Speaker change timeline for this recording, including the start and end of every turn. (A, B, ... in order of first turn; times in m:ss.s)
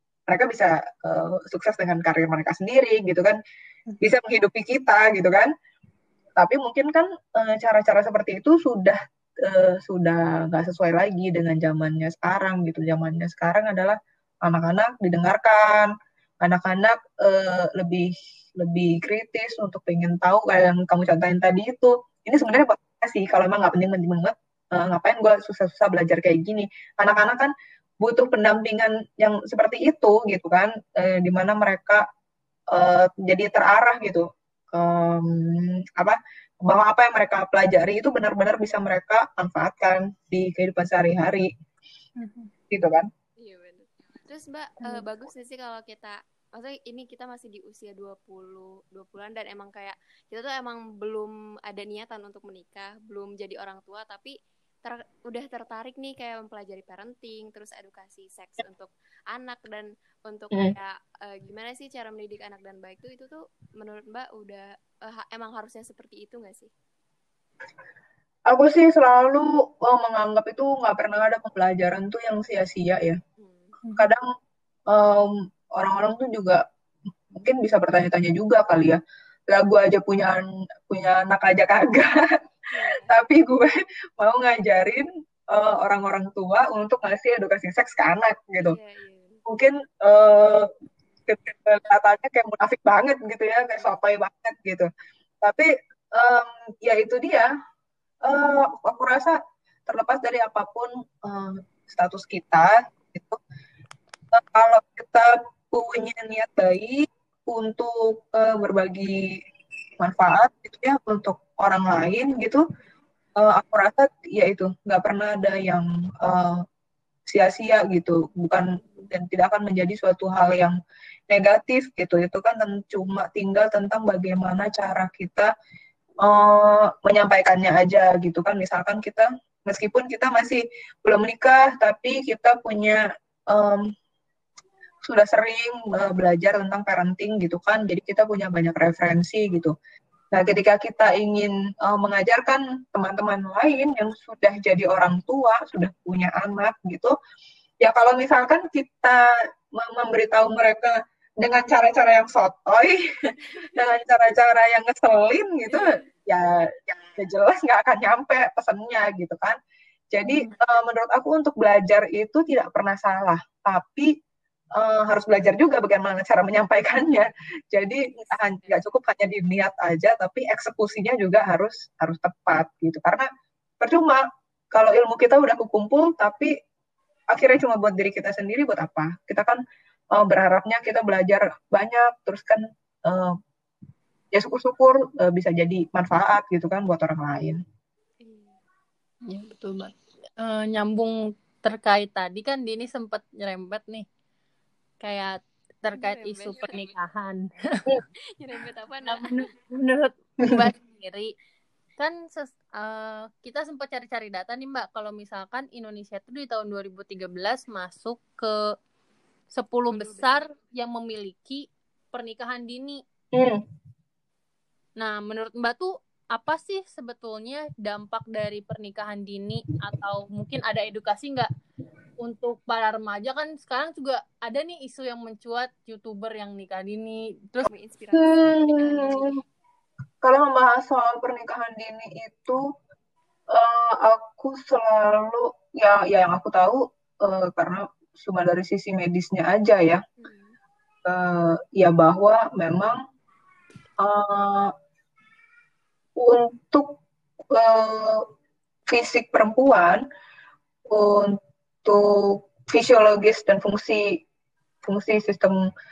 0:00.3-0:03.4 A
0:04.0-0:05.5 A
0:06.4-0:15.9 A
0:16.4-0:27.5 A
0:28.0-0:32.0 A
0:32.7-0:41.5 A
0:42.2-0:42.5 B
0:42.7-0:43.1 A
0:43.4-0:54.3 C
0:54.8-1:06.7 C
1:08.5-1:13.2 A
1:13.4-1:13.8 C
1:13.8-1:14.1 B
1:14.0-1:14.3 A
1:14.9-1:16.6 A
1:17.3-1:22.2 A
1:22.7-1:23.1 C
1:23.0-1:28.8 A
1:28.6-1:29.4 C
1:29.5-1:30.7 A
1:31.3-1:34.9 A
1:35.4-1:37.5 A
1:38.2-1:39.4 A
1:39.9-1:43.4 A
1:44.3-1:49.2 A
1:50.0-1:52.6 A
1:53.4-1:56.6 A
1:57.3-2:00.8 A
2:01.3-2:05.5 A
2:06.2-2:13.9 A
2:15.0-2:19.7 A
2:20.3-2:27.1 A
2:27.8-2:29.2 A
2:29.8-2:39.6 A
2:33.6-2:34.0 C
2:35.7-2:36.0 C
2:40.1-2:44.1 A
2:44.8-2:53.3 A
2:48.2-2:48.9 C
2:53.8-2:54.2 A
2:54.7-2:56.5 A
2:57.3-2:59.6 A
3:00.1-3:03.3 A
3:04.3-3:07.6 A
3:08.2-3:08.6 C
3:09.3-3:14.0 B
3:15.0-3:17.8 B
3:15.9-3:16.9 C
3:18.4-3:19.4 C
3:19.1-3:21.3 B
3:22.0-3:28.5 B
3:29.5-3:33.0 B
3:29.9-3:30.4 C
3:33.3-3:33.6 A
3:35.0-3:41.5 B
3:42.2-3:47.7 B
3:47.6-3:49.4 C
3:48.1-3:49.3 A
3:50.2-3:52.6 A
3:53.5-4:00.0 A
4:00.2-4:00.6 C
4:01.0-4:03.0 A
4:04.0-4:04.7 A
4:06.2-4:07.0 A
4:07.5-4:08.2 A
4:08.9-4:10.0 A
4:10.9-4:14.2 A
4:14.8-4:15.6 A